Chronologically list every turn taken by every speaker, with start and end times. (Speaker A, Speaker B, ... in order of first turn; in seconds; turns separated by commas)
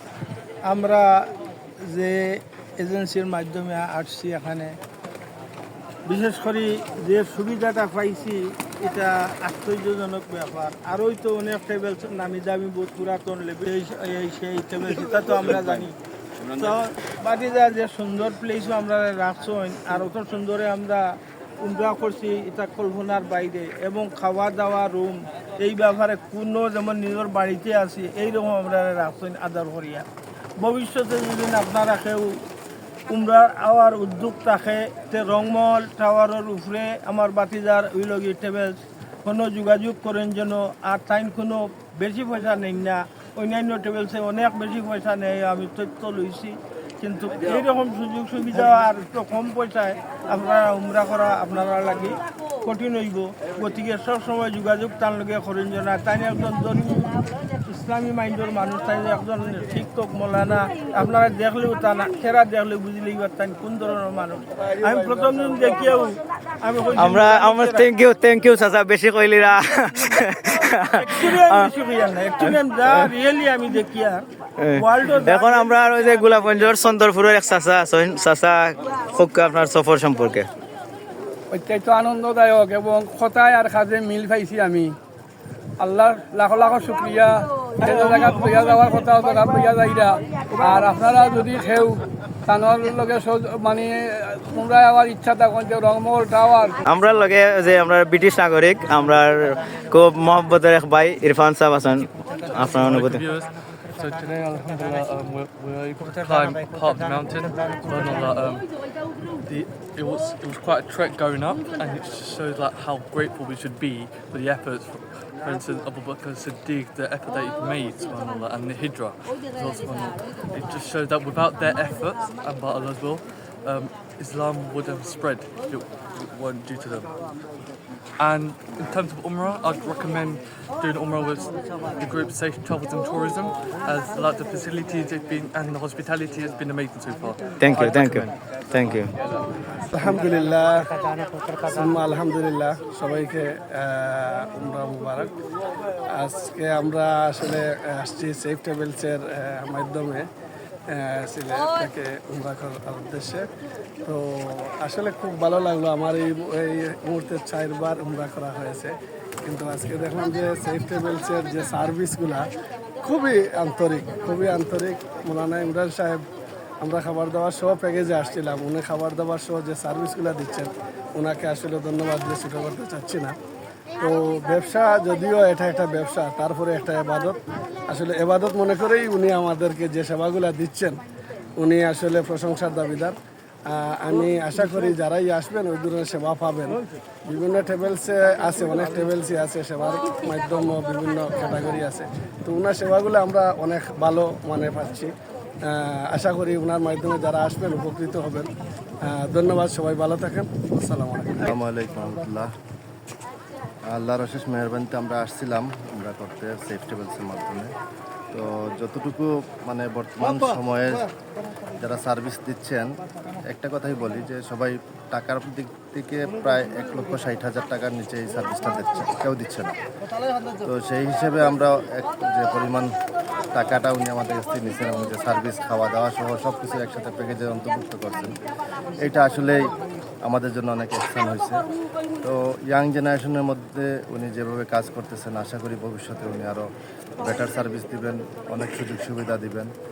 Speaker A: 0.7-1.1, Speaker A: 1.9-2.2, Speaker A: 2.8-4.7, Speaker A: 6.1-15.9, Speaker A: 16.5-21.0, Speaker A: 21.6-30.1, Speaker A: 30.6-32.4, Speaker A: 33.1-67.9, Speaker B: 67.0-71.7, Speaker A: 71.0-75.8, Speaker B: 72.4-72.9, Speaker B: 74.6-80.5, Speaker C: 81.5-85.0, Speaker C: 85.8-96.8, Speaker B: 96.8-103.2, Speaker D: 102.4-108.7, Speaker D: 109.5-127.1, Speaker D: 128.2-139.5, Speaker B: 137.6-139.1, Speaker E: 139.8-140.8, Speaker E: 141.6-145.3, Speaker E: 146.1-150.3, Speaker E: 150.9-153.5, Speaker E: 154.0-158.9, Speaker E: 159.4-162.5, Speaker E: 163.0-166.2, Speaker E: 166.8-173.4, Speaker E: 174.0-181.0, Speaker E: 181.6-183.2, Speaker E: 183.7-195.1, Speaker E: 195.7-198.5, Speaker E: 199.1-201.5, Speaker F: 201.5-202.5, Speaker F: 203.9-207.7, Speaker F: 208.3-211.1, Speaker F: 211.8-212.9, Speaker F: 213.5-219.7, Speaker F: 220.6-222.9, Speaker F: 223.5-228.3, Speaker F: 229.0-229.6, Speaker F: 230.3-231.6, Speaker F: 232.2-236.6, Speaker F: 237.2-239.7